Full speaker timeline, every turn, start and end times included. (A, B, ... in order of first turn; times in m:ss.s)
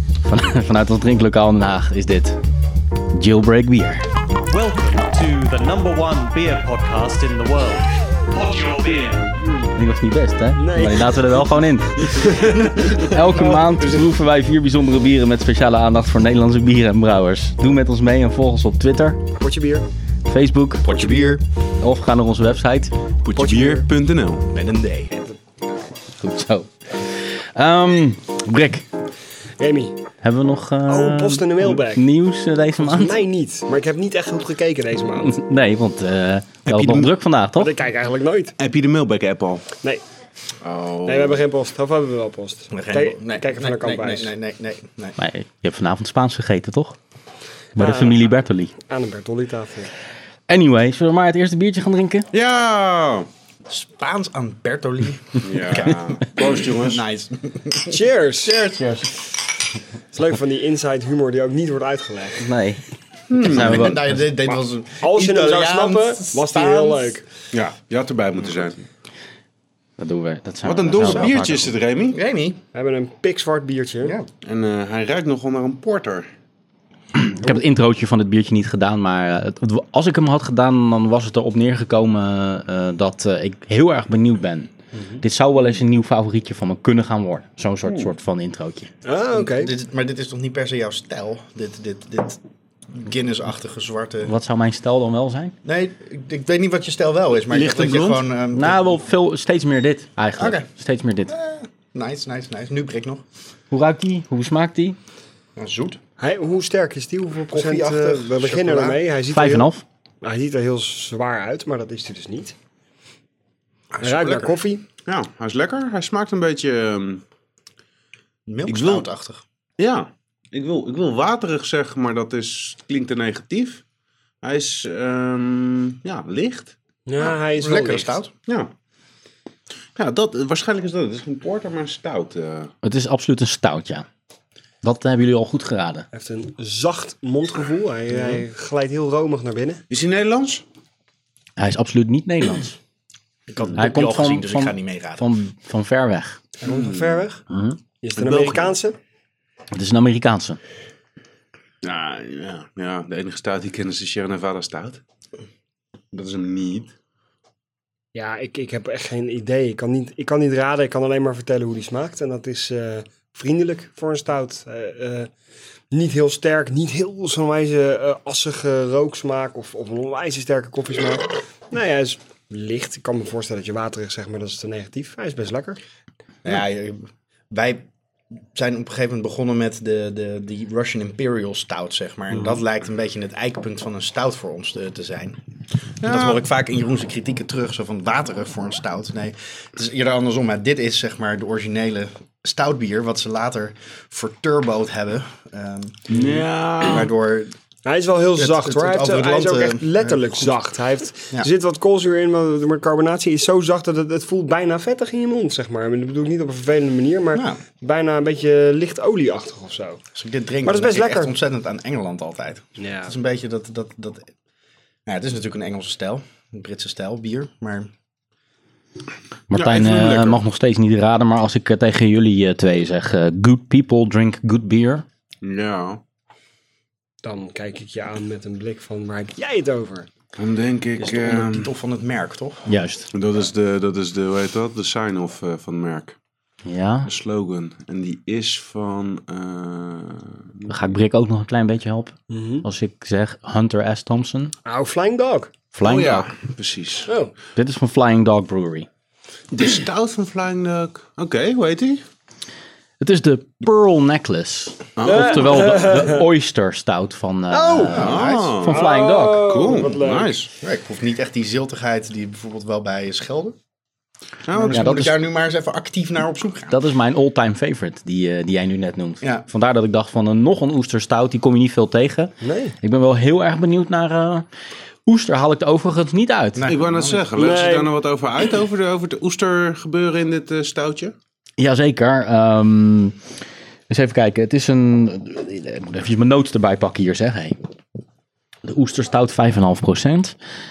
0:00.3-0:02.4 A
0:03.1-0:04.1 A
0:04.5-0:09.7 B
0:09.8-0:19.2 A
0:10.6-0:11.5 C
0:12.0-0:13.0 C
0:19.4-0:19.9 C
0:20.3-0:21.2 A
0:20.8-0:21.4 D
0:21.8-0:22.9 A
0:23.2-0:24.5 E
0:23.4-0:23.9 C
0:24.5-0:25.2 D
0:26.2-0:28.9 A
0:29.6-0:30.0 C
0:30.2-0:33.2 A
0:30.9-0:32.0 C
0:32.8-0:35.4 C
0:35.2-0:37.7 A
0:36.7-0:37.1 E
0:37.6-0:38.6 C
0:38.6-0:39.7 E
0:40.6-0:41.4 E
0:41.0-0:44.3 C
0:42.7-0:45.2 D
0:45.2-0:47.0 A
0:47.8-0:48.7 A
0:47.8-0:49.9 C
0:50.5-0:52.3 A
0:52.3-0:53.3 E
0:53.7-0:58.8 D
0:55.4-0:57.0 E
0:57.9-0:58.7 C
0:58.8-0:59.1 A
1:00.1-1:02.5 C
1:02.4-1:02.8 A
1:03.3-1:03.9 E
1:03.3-1:07.2 D
1:03.3-1:04.2 A
1:04.5-1:07.2 C
1:07.5-1:08.8 E
1:10.0-1:11.8 A
1:10.6-1:12.2 E
1:12.1-1:12.6 D
1:12.7-1:14.2 C
1:14.0-1:14.3 D
1:14.4-1:16.3 E
1:17.2-1:28.9 A
1:29.0-1:29.7 C
1:29.3-1:32.4 D
1:32.9-1:34.3 D
1:34.2-1:35.6 A
1:35.6-1:39.0 D
1:37.5-1:38.2 E
1:38.5-1:41.3 A
1:40.4-1:40.7 D
1:41.3-1:43.2 D
1:43.7-1:45.0 A
1:45.6-1:46.0 D
1:46.2-1:49.7 C
1:47.5-1:49.0 D
1:49.3-1:49.8 A
1:50.2-1:52.6 C
1:53.9-1:54.6 D
1:54.0-1:54.8 C
1:55.0-1:57.2 E
1:58.5-1:59.4 D
1:58.7-1:59.1 E
1:59.8-2:03.8 E
2:04.4-2:06.7 E
2:07.1-2:08.2 C
2:07.2-2:08.3 D
2:08.5-2:08.7 E
2:10.0-2:12.7 E
2:12.8-2:14.1 A
2:14.8-2:16.1 A
2:16.1-2:19.8 C
2:19.9-2:20.6 E
2:21.6-2:22.8 A
2:23.5-2:25.2 D
2:23.8-2:26.4 A
2:26.6-2:27.4 C
2:26.6-2:27.2 E
2:27.5-2:27.8 A
2:28.0-2:29.0 C
2:28.2-2:28.7 E
2:29.7-2:30.6 A
2:31.8-2:35.0 E
2:36.1-2:36.9 E
2:38.2-2:45.3 C
2:45.9-2:55.8 C
2:56.4-3:05.4 D
3:06.0-3:06.4 E
3:06.0-3:16.3 D
3:16.1-3:17.1 E
3:16.8-3:17.6 D
3:17.8-3:30.0 C
3:18.4-3:20.6 D
3:27.3-3:27.6 D
3:30.2-3:34.3 D
3:30.6-3:31.3 C
3:32.8-3:33.1 C
3:35.1-3:37.9 D
3:39.5-3:45.0 A
3:39.5-3:40.4 E
3:45.4-3:46.0 E
3:47.2-3:50.1 C
3:50.4-3:51.7 E
3:51.0-3:52.7 D
3:52.7-3:53.1 A
3:53.1-3:56.2 E
3:56.6-3:57.1 A
3:57.0-4:00.7 E
4:00.7-4:04.5 A
4:02.3-4:02.6 C
4:04.7-4:05.5 C
4:05.7-4:06.3 A
4:05.8-4:07.1 E
4:07.1-4:07.3 C
4:07.6-4:08.9 A
4:09.5-4:12.0 E
4:13.0-4:19.5 A
4:15.0-4:15.8 E
4:15.0-4:16.2 C
4:17.5-4:18.0 C
4:17.9-4:18.6 D
4:18.0-4:20.5 E
4:18.7-4:20.4 C
4:20.6-4:23.6 D
4:24.5-4:24.8 E
4:24.5-4:26.8 D
4:24.7-4:25.2 A
4:26.7-4:34.5 A
4:32.4-4:32.8 C
4:35.1-4:36.7 A
4:36.6-4:37.4 D
4:36.7-4:41.2 E
4:37.4-4:37.9 C
4:41.6-4:43.2 A
4:43.9-4:47.6 A
4:48.6-4:50.4 A